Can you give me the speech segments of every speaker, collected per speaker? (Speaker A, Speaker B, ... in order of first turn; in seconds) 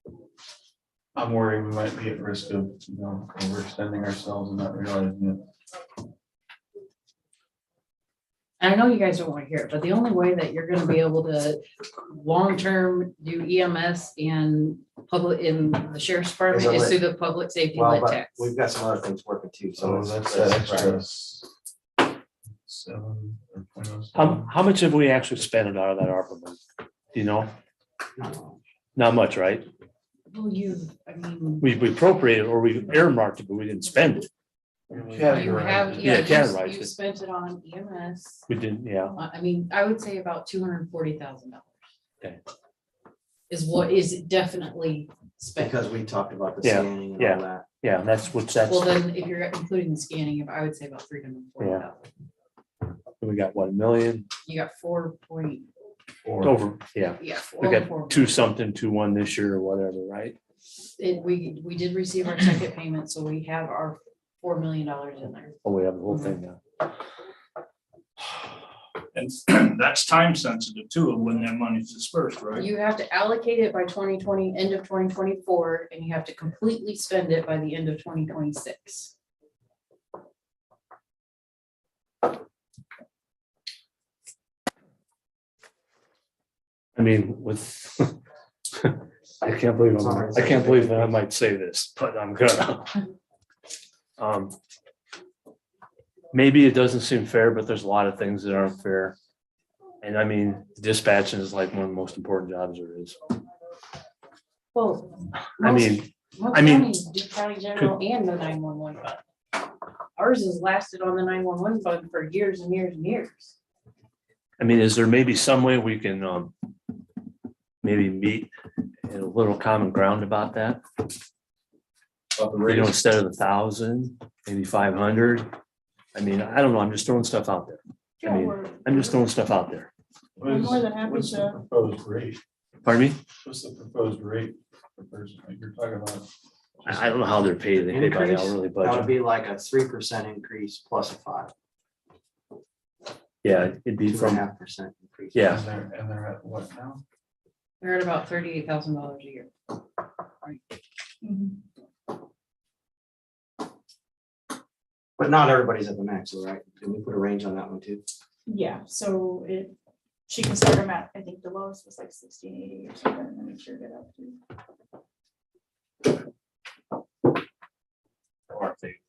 Speaker A: 1.1-5.4, 19.8-21.5, 22.6-24.5, 34.9-36.3, 56.2-56.6, 122.3-122.9, 130.4-132.4, 133.4-136.3, 136.8-137.1, 145.5-147.0
Speaker B: 8.6-18.5, 30.3-31.8, 35.3-38.5, 39.1-41.7, 43.5-45.8, 48.6-52.1, 54.5-55.6, 57.2-58.4, 61.0-65.6, 66.1-66.3, 72.5-79.1, 104.7-109.2, 110.2-113.5, 147.8-149.5
Speaker C: 16.5-17.0, 17.7-21.0, 28.2-28.6, 45.6-47.7, 90.0-91.2, 137.9-141.5, 144.1-145.6, 155.2-158.0
Speaker D: 24.1-26.6, 27.1-27.5, 28.9-29.7, 31.6-34.3, 36.0-36.9, 38.5-39.1, 46.6-49.0, 51.6-51.8, 53.2-54.3, 56.4-60.4, 65.6-66.6, 87.0-88.2, 88.8-93.0, 94.2-94.5, 96.3-99.2, 100.0-103.2, 105.6-106.9, 114.6-116.5, 117.8-118.5, 119.0-120.8, 122.7-125.5, 126.1-129.9, 132.8-133.2, 136.9-139.1, 143.4-144.4, 145.3-145.6, 168.6-168.9
Speaker E: 69.1-72.7
Speaker F: 128.2-129.3, 130.4-131.6, 151.2-151.6, 158.5-159.7, 160.3-164.3